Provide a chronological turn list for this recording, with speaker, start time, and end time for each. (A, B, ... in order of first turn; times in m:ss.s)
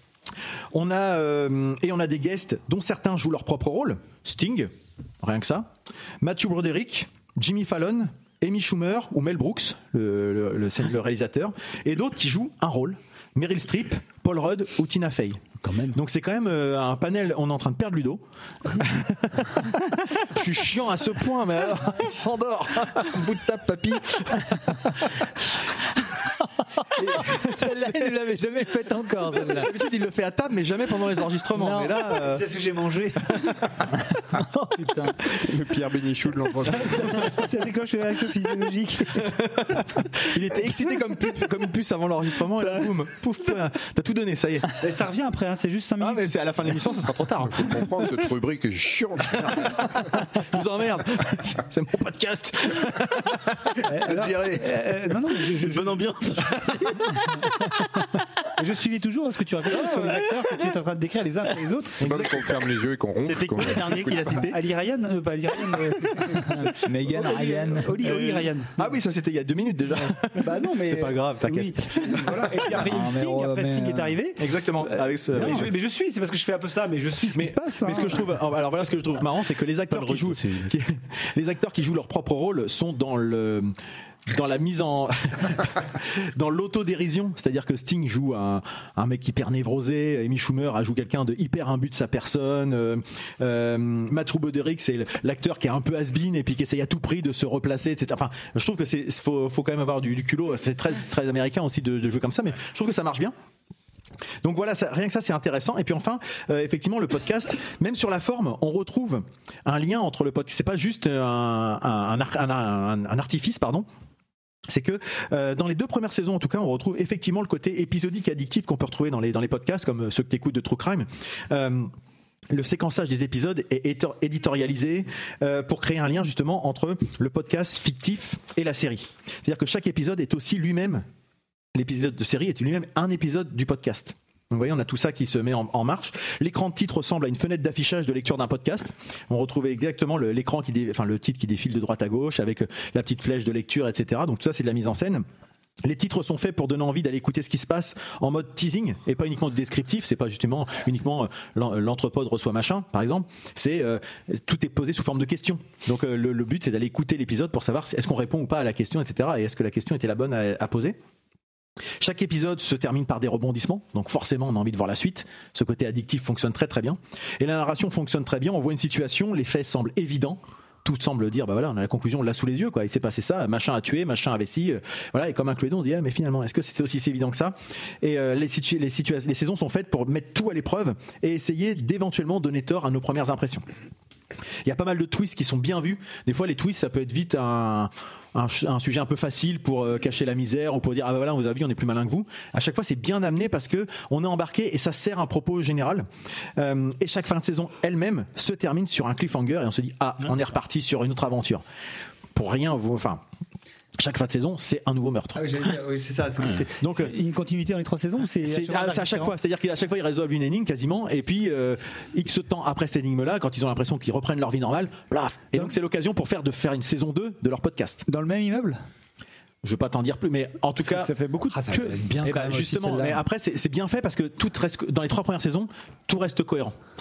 0:00.7-0:04.7 A
0:05.2-0:05.7 A
0:06.2-0:24.8 A
0:15.6-0:16.0 B
0:27.0-0:28.2 A
0:27.6-0:29.6 C
0:27.6-0:29.7 D
0:29.5-0:32.5 A
0:31.6-0:33.7 C
0:34.5-0:35.1 D
0:34.8-0:35.1 C
0:35.3-0:37.2 E
0:36.6-0:39.4 C
0:39.2-0:44.8 A
0:44.8-0:46.4 C
0:46.0-0:47.9 A
0:47.4-0:49.9 E
0:49.3-0:53.9 A
0:53.8-0:56.0 C
0:54.1-0:54.7 E
0:55.6-0:57.1 B
0:58.6-1:02.1 C
1:02.0-1:04.4 E
1:02.0-1:02.5 A
1:03.2-1:04.6 B
1:04.4-1:08.7 C
1:06.8-1:08.0 D
1:08.1-1:08.5 B
1:08.8-1:12.7 A
1:10.4-1:18.3 C
1:12.8-1:14.1 D
1:14.4-1:15.7 A
1:17.3-1:23.7 A
1:19.9-1:20.7 B
1:24.3-1:43.3 A
1:44.4-1:53.9 A
1:54.7-2:01.9 A
2:02.5-2:11.0 A
2:11.8-2:25.2 A
2:25.8-2:41.0 A
2:42.0-3:03.6 A
3:04.6-3:16.1 A
3:16.6-3:21.6 A
3:22.4-3:23.2 A
3:24.0-3:25.5 A
3:25.4-3:29.4 C
3:26.8-3:27.2 A
3:28.4-3:38.1 A
3:38.1-3:38.8 C
3:39.6-3:41.1 A
3:40.8-3:42.0 C
3:41.5-3:43.2 D
3:42.2-3:46.8 A